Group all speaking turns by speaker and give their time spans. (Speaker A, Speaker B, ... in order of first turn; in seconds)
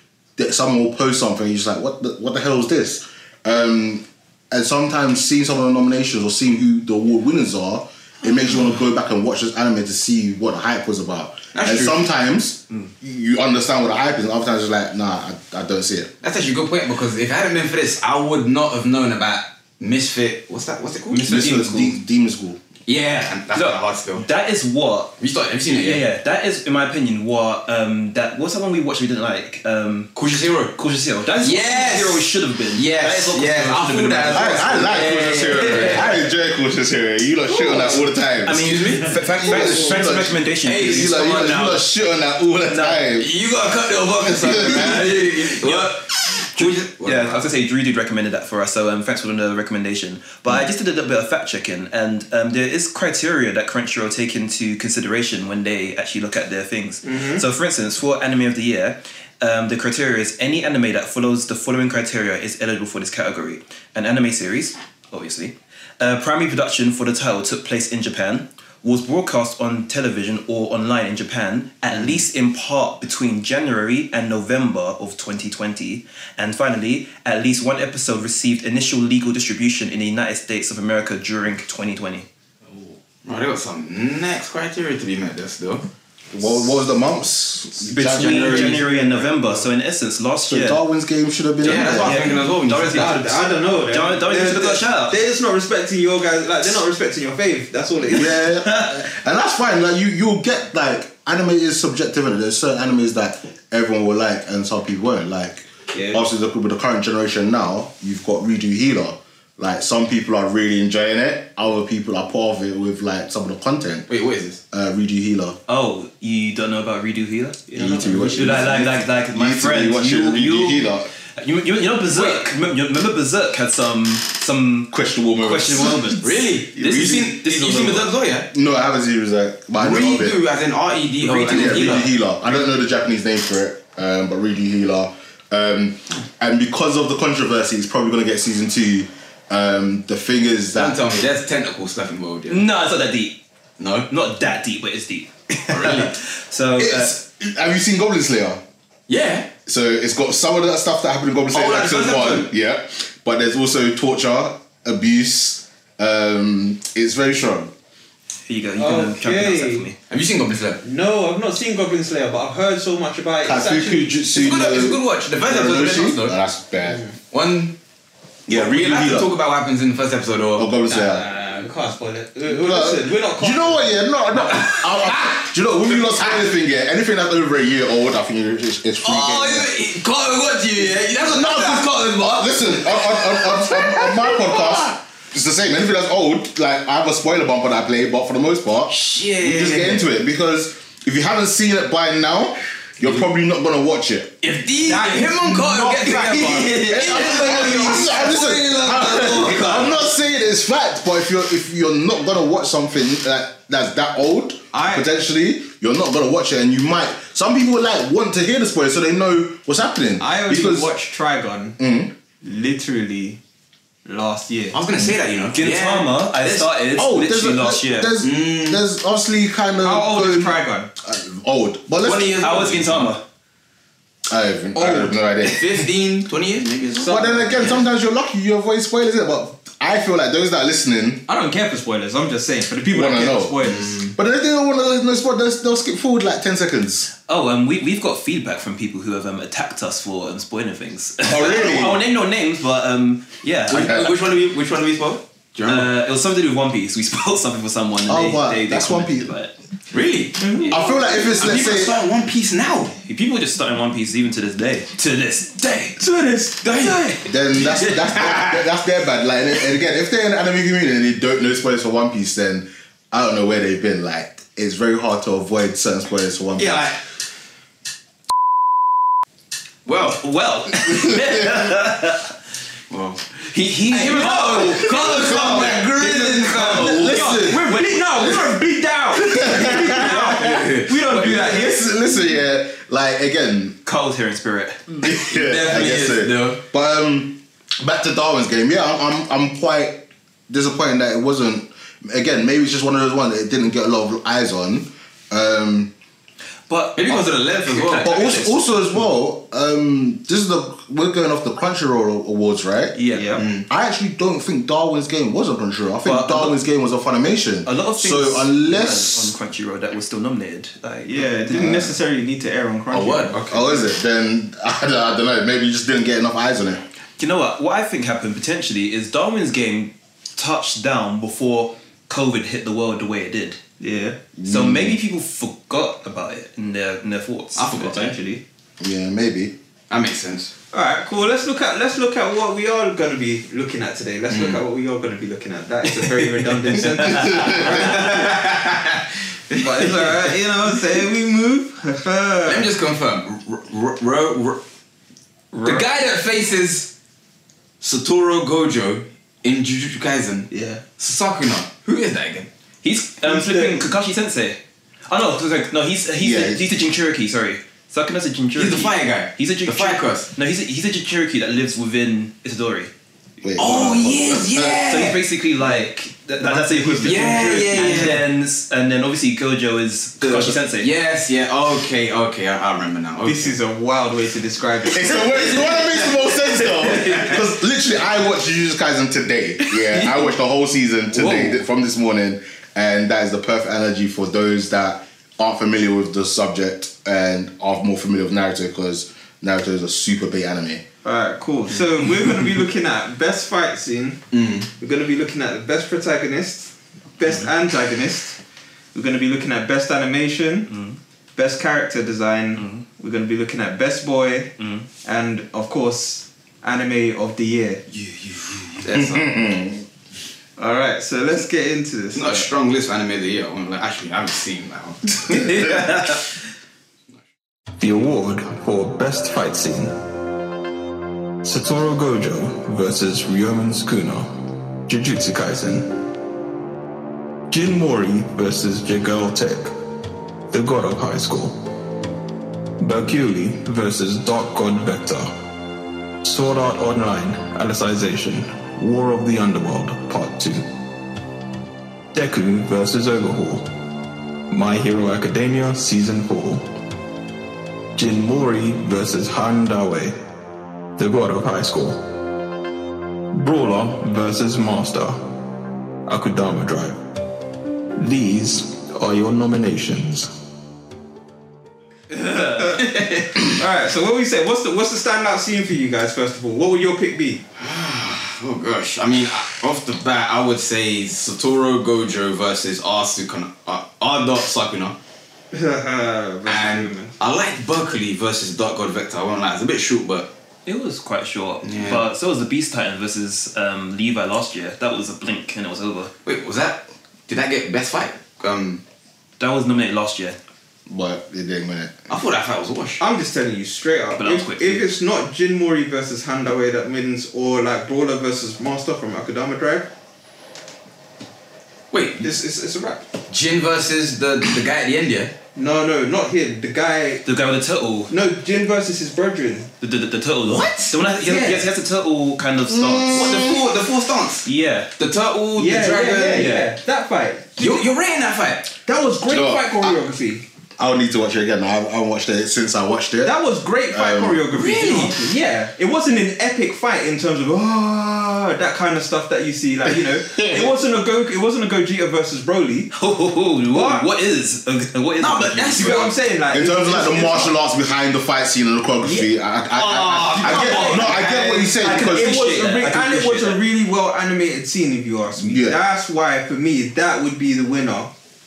Speaker A: 0.4-16.1, 21.2-22.6, 34.3-43.3, 44.2-45.2, 86.3-88.8, 90.5-92.3, 98.1-114.1, 114.7-115.6, 117.7-121.1, 124.9-126.2, 128.5-130.4, 131.5-141.0, 146.8-148.6, 149.7-157.7, 163.4-167.0, 168.5-169.3, 170.6-171.2, 172.5-179.7, 181.2-194.4, 196.7-210.9, 211.8-212.1, 216.9-222.6, 224.3-225.7, 227.0-231.2, 232.9-237.1, 241.2-242.0, 248.1-249.3, 250.7-252.0, 257.3-266.9, 275.0-275.8, 276.7-278.5, 279.3-280.2, 281.1-283.8, 285.0-295.9, 298.0-303.0, 303.7-309.3, 311.6-311.8, 313.5-316.9, 324.4-325.0, 328.8-329.6, 337.3-337.6, 356.2-356.7, 363.4-364.8, 374.9-390.8, 408.9-409.9, 490.9-491.9, 512.7-513.6, 519.3-520.0, 520.8-523.3, 523.9-524.4, 530.2-530.7, 536.5-542.4, 545.4-545.8
Speaker B: 11.5-12.1, 16.2-22.0, 22.9-24.2, 25.2-26.1, 30.1-30.8, 31.4-36.2, 38.6-39.7, 40.6-41.8, 43.2-47.4, 83.2-85.8, 91.6-93.4, 114.1-114.6, 118.4-118.8, 122.1-122.5, 126.2-128.5, 129.8-132.1, 140.7-142.7, 143.8-144.1, 145.7-146.2, 149.1-149.5, 151.5-152.4, 160.1-160.8, 164.3-166.4, 167.3-167.8, 168.5-170.7, 174.5-175.4, 179.0-184.9, 188.9-190.1, 194.4-200.0, 214.7-216.7, 218.2-218.8, 222.0-223.1, 225.4-227.8, 233.6-234.1, 241.3-241.8, 243.7-245.9, 249.9-253.0, 255.7-255.9, 256.6-258.6, 266.6-266.9, 269.9-270.2, 272.9-273.3, 273.9-277.7, 279.2-281.6, 285.2-286.6, 297.0-298.4, 303.4-303.7, 312.9-313.7, 327.6-328.2, 329.9-330.5, 334.3-334.6, 336.8-340.1, 342.5-344.6, 345.6-346.9, 347.8-352.5, 358.6-360.3, 363.6-365.2, 367.0-368.3, 370.3-373.5, 394.3-394.7, 407.9-409.2, 412.1-416.2, 462.8-463.4, 467.6-475.0, 476.5-480.3, 481.6-482.0, 486.2-488.8, 492.1-493.0, 501.9-502.3, 503.3-505.3, 510.5-511.0, 513.1-516.5, 517.6-518.7, 524.5-525.2, 535.2-536.1
Speaker C: 21.1-21.5, 23.5-25.1, 25.7-30.1, 30.8-36.3, 38.4-41.2, 42.7-43.1, 45.6-46.0, 46.6-82.3, 87.9-90.8, 91.7-95.2, 115.7-128.1, 131.2-132.1, 142.5-143.4, 144.1-147.1, 158.5-160.0, 215.5-218.1, 222.4-223.2, 237.3-244.1, 245.7-249.5, 253.0-255.9, 270.2-272.3, 273.4-277.3, 283.9-285.0, 296.7-298.6, 303.0-303.3, 306.0-306.6, 307.6-311.9, 317.2-323.6, 324.4-328.4, 352.8-362.9, 363.6-363.9, 364.6-370.9, 377.1-377.4, 379.7-380.3, 381.1-381.6, 400.7-401.0, 402.6-402.8, 404.6-404.9, 415.3-416.2, 462.1-462.8, 480.7-486.1, 489.4-490.4, 494.2-494.8, 507.2-508.1, 509.8-513.5, 514.5-514.9, 516.3-516.7, 532.9-536.1, 539.7-543.6
Speaker D: 57.0-57.4, 88.1-89.7, 93.0-98.4, 105.9-106.2, 117.7-118.6, 158.8-159.9, 160.8-164.3, 170.9-173.9, 194.8-198.2, 204.7-205.1, 210.2-211.8, 212.4-213.4, 214.1-214.8, 219.8-220.9, 224.8-225.2, 231.3-234.0, 250.4-251.0, 256.0-257.1, 274.5-281.9, 303.1-303.4, 311.1-313.4, 323.8-324.2, 330.7-338.4, 339.6-342.7, 350.5-350.8, 353.2-353.8, 365.6-365.9, 366.4-368.2, 370.3-370.6, 373.2-375.9, 391.0-394.2, 394.8-398.4, 398.9-400.7, 401.4-407.8, 410.6-412.5, 462.6-467.4, 475.5-477.1, 493.0-499.9, 502.2-503.0, 505.6-507.2, 508.1-509.7, 511.2-511.7, 515.5-517.8, 518.9-520.4, 523.2-532.9, 533.7-534.1, 535.8-537.5, 540.2-548.1
Speaker E: 417.8-419.9, 421.4-424.3, 424.9-426.0, 427.5-429.7, 430.5-431.6, 432.8-435.3, 436.2-440.7, 442.1-443.6, 444.5-446.6, 448.0-450.1, 451.0-452.0, 453.3-455.2, 456.1-457.0, 458.0-460.3